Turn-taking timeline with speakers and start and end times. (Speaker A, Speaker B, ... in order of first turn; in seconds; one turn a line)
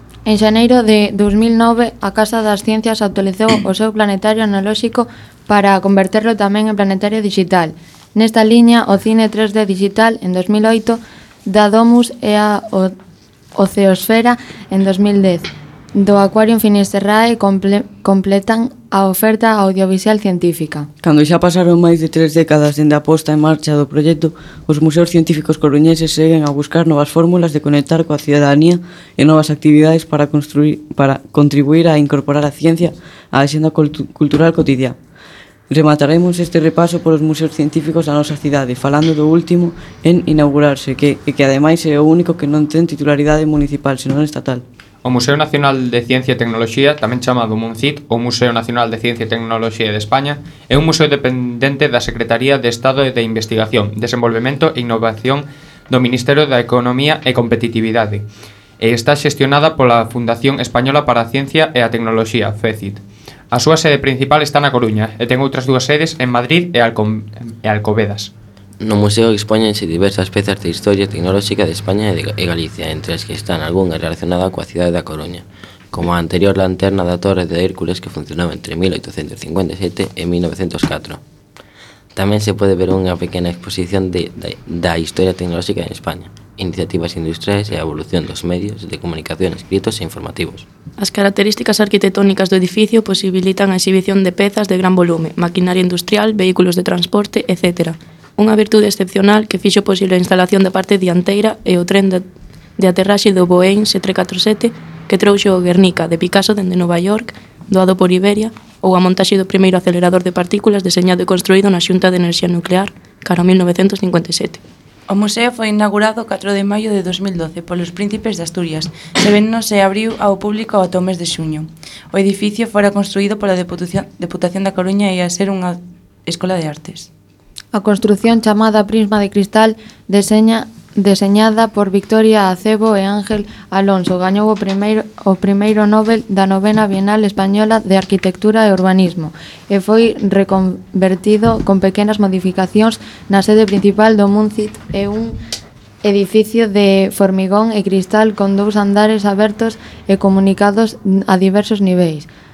Speaker A: 0.3-12.9
Speaker A: 13.6-20.9
Speaker B: 21.0-35.0
Speaker B: 35.7-44.6
Speaker C: 45.0-58.2
Speaker C: 58.8-63.0
Speaker C: 63.5-68.3
Speaker D: 68.8-81.2
Speaker D: 82.2-90.7
Speaker E: 91.0-102.2
Speaker E: 102.8-114.6
Speaker F: 115.1-127.1
Speaker A: 127.7-145.4
Speaker A: 146.0-152.3